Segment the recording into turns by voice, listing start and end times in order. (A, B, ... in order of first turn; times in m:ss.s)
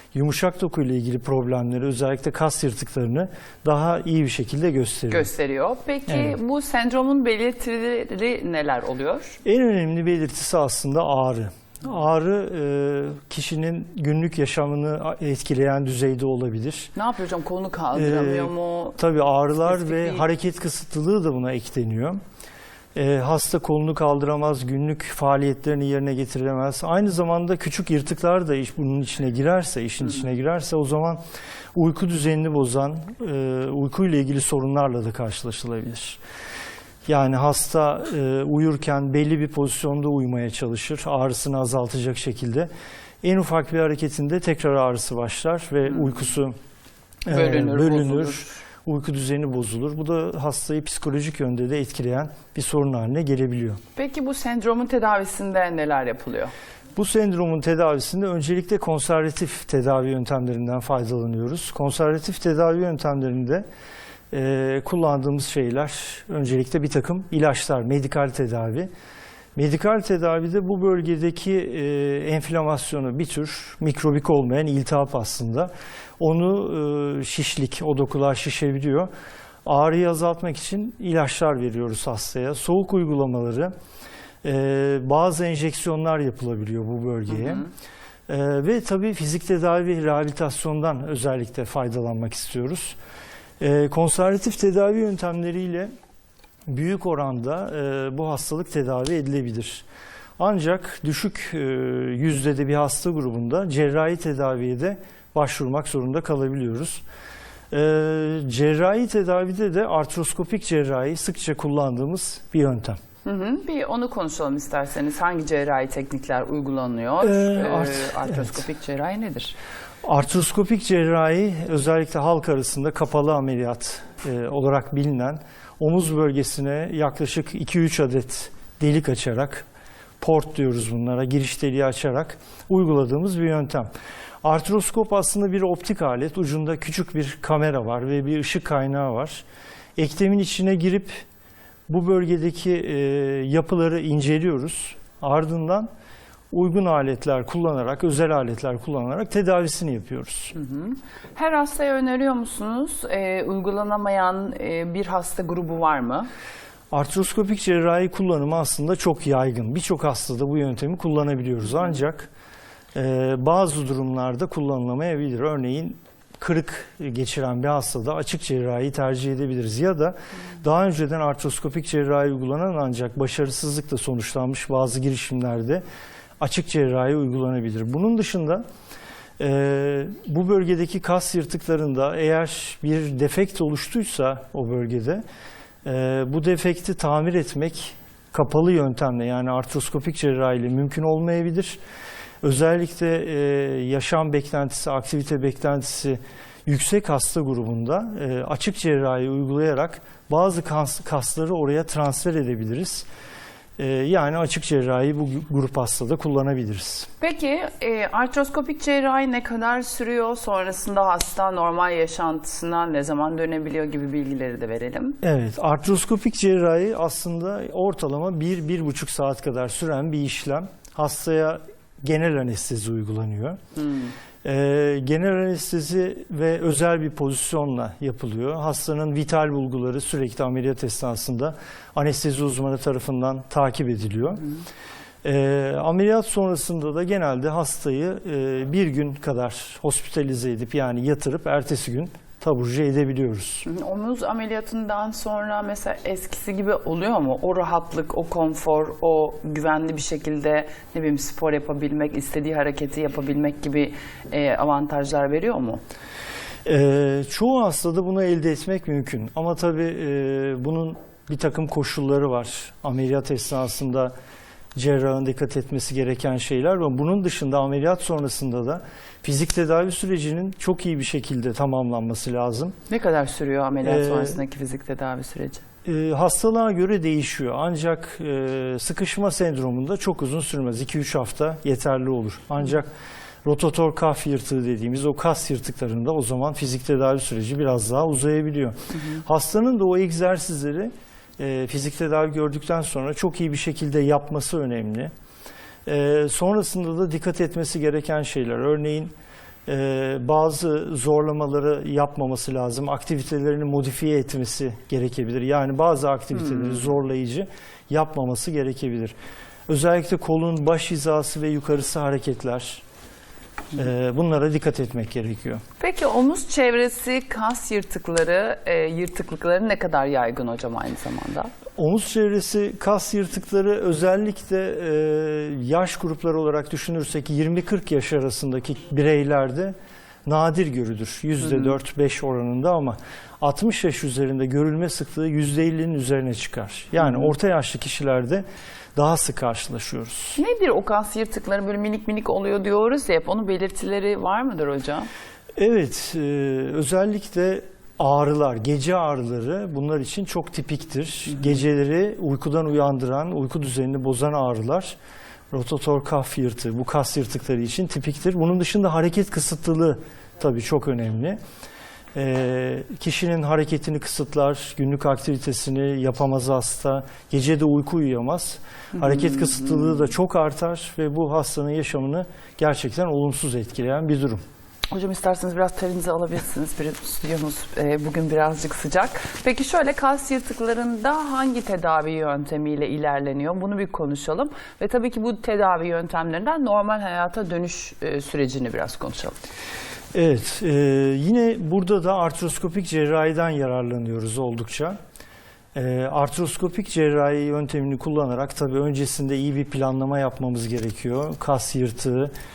0:00.1-0:05.3 A
0:05.1-0:09.4 B
0:06.1-0:06.4 A
0:09.4-0:16.9 A
0:17.0-0:19.0 B
0:17.9-0:22.2 A
0:19.7-0:20.2 B
0:22.9-0:31.2 A
0:31.7-0:36.2 A
0:37.1-0:42.7 A
0:43.2-0:46.5 A
0:47.2-0:53.8 A
0:47.3-0:48.6 B
0:54.0-0:56.5 B
0:57.0-1:03.6 A
1:04.3-1:08.9 A
1:09.6-1:19.1 A
1:19.6-1:23.7 A
1:24.4-1:27.6 A
1:27.3-1:27.7 B
1:28.3-1:33.0 A
1:33.6-1:35.9 A
1:36.7-1:39.8 A
1:40.4-1:47.0 A
1:47.7-1:53.0 A
1:53.2-1:59.6 B
1:57.2-1:58.6 A
2:00.0-2:09.7 A
2:10.2-2:13.9 A
2:14.4-2:19.4 A
2:20.0-2:21.2 A
2:21.9-2:25.9 A
2:26.5-2:30.5 A
2:30.5-2:36.3 B
2:36.9-2:42.3 A
2:42.9-2:55.8 A
2:56.4-2:58.6 A
2:59.4-3:05.2 A
3:05.8-3:11.8 A
3:12.4-3:23.1 A
3:23.8-3:27.1 A
3:27.2-3:35.2 B
3:35.2-3:43.6 A
3:43.8-3:44.1 B
3:44.4-3:54.4 A
3:55.2-4:03.6 A
4:03.6-4:15.8 B
4:16.6-4:24.1 A
4:24.7-4:32.7 A
4:32.9-4:35.6 B
4:33.8-4:34.4 A
4:35.8-4:42.9 A
4:43.4-4:55.1 A
4:55.8-4:59.1 A
4:59.7-5:09.1 A
5:06.4-5:06.8 B
5:09.7-5:12.8 A
5:13.7-5:15.6 A
5:15.8-5:21.5 B
5:21.8-5:29.7 A
5:30.2-5:38.4 A
5:31.4-5:31.7 B
5:37.0-5:37.3 B
5:39.0-5:40.4 A
5:40.4-5:45.1 B
5:45.6-5:55.0 A
5:55.5-6:01.4 A
6:02.1-6:14.4 A
6:08.9-6:10.1 B
6:14.9-6:29.3 B
6:30.1-6:35.0 A
6:35.7-6:42.3 A